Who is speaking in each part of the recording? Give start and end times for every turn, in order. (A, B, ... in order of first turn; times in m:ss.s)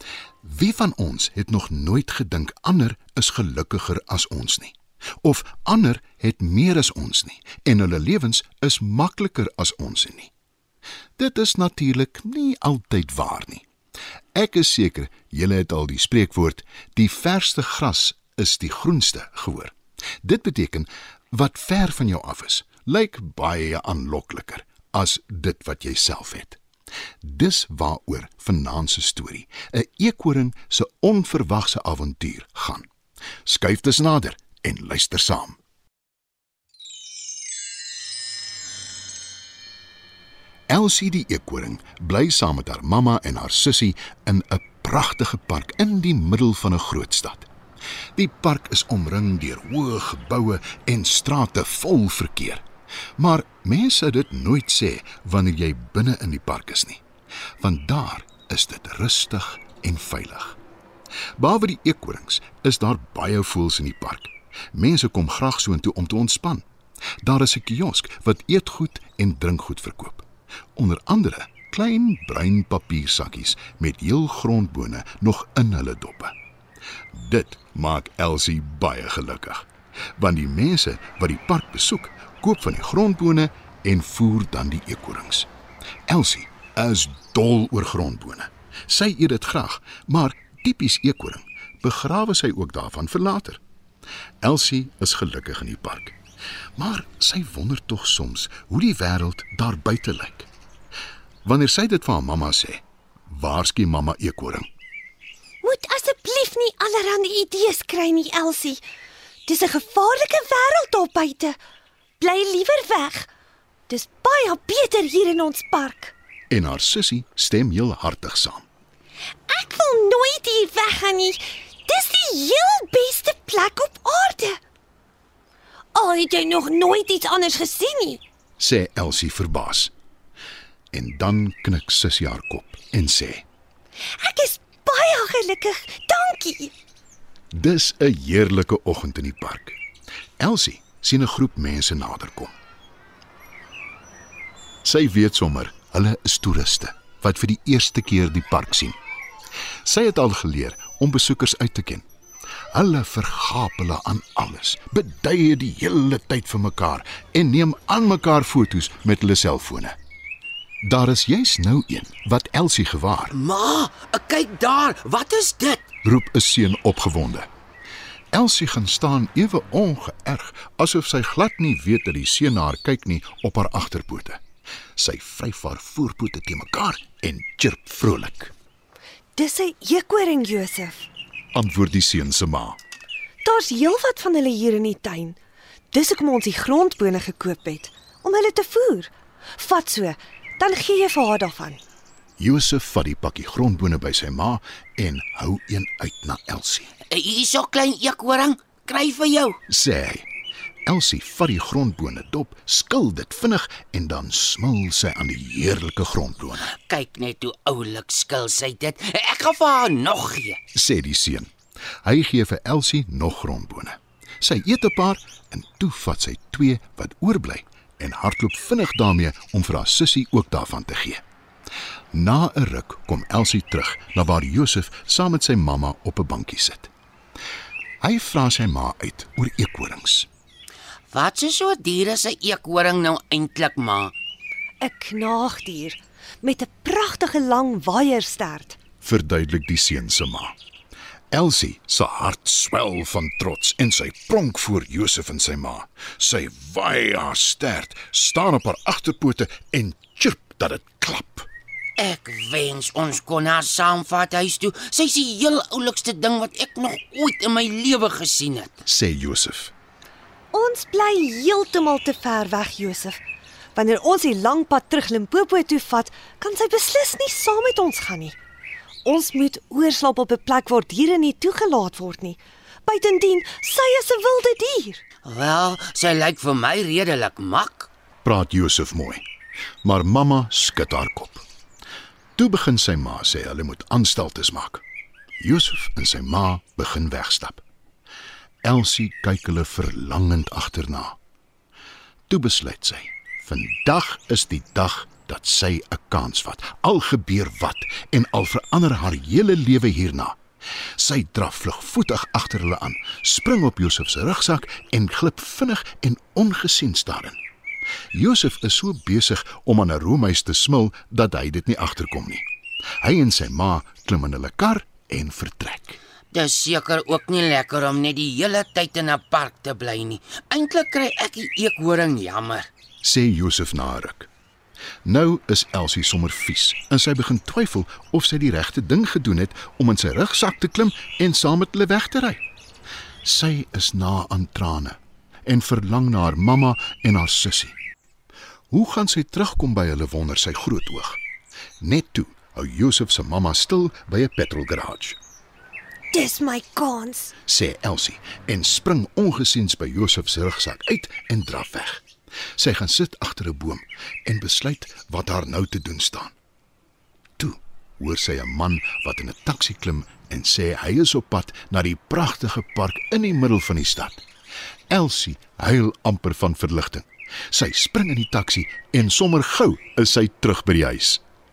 0:00.4-0:10.3 A
0:11.2-0:13.7 A
0:14.4-0:26.6 A
0:27.2-0:32.9 A
0:33.4-0:35.6 A
0:40.7-0:47.5 A
0:48.2-0:52.6 A
0:53.2-0:57.0 A
0:57.6-1:00.6 A
1:01.4-1:06.7 A
1:07.2-1:16.4 A
1:17.1-1:25.5 A
1:26.1-1:33.6 A
1:34.4-1:36.2 A
1:36.8-1:40.5 A
1:41.4-1:44.7 A
1:45.6-1:48.8 B
1:49.5-1:51.6 B
1:52.2-1:53.3 B
1:53.9-1:56.2 B
1:56.5-1:58.6 A
1:59.5-2:04.6 B
2:05.9-2:08.2 B
2:08.6-2:09.9 A
2:10.9-2:13.4 A
2:14.2-2:16.7 B
2:17.5-2:19.8 A
2:20.4-2:22.5 A
2:24.8-2:29.0 A
2:29.8-2:32.0 A
2:32.7-2:40.0 A
2:40.8-2:43.3 A
2:43.3-2:45.8 C
2:46.0-2:47.5 A
2:48.3-2:54.4 A
2:55.0-2:58.5 A
2:59.4-3:01.1 B
3:01.5-3:02.8 A
3:03.4-3:05.4 B
3:05.9-3:11.8 B
3:12.4-3:16.9 A
3:17.1-3:19.6 C
3:19.7-3:20.3 A
3:20.9-3:26.7 A
3:26.9-3:30.6 C
3:30.7-3:31.5 A
3:32.0-3:41.2 A
3:42.1-3:46.9 A
3:48.0-3:50.3 A
3:51.1-3:54.1 C
3:54.8-3:58.8 B
3:59.0-4:00.6 A
4:01.3-4:11.5 A
4:12.0-4:18.8 C
4:18.9-4:19.7 A
4:20.5-4:23.2 B
4:23.8-4:28.4 B
4:29.0-4:35.0 B
4:35.3-4:37.9 C
4:38.2-4:39.2 A
4:39.8-4:41.4 A
4:42.4-4:44.8 A
4:45.4-4:47.6 A
4:48.6-4:51.2 A
4:52.3-5:00.4 A
5:01.0-5:07.4 A
5:08.1-5:12.4 A
5:13.0-5:16.0 A
5:16.3-5:22.7 C
5:23.0-5:24.3 A
5:25.0-5:32.4 A
5:33.2-5:37.8 A
5:38.7-5:41.2 A
5:41.8-5:45.2 A
5:46.1-5:47.3 B
5:47.5-5:52.0 A
5:52.6-5:56.4 A
5:57.4-6:04.2 A
6:04.9-6:11.2 A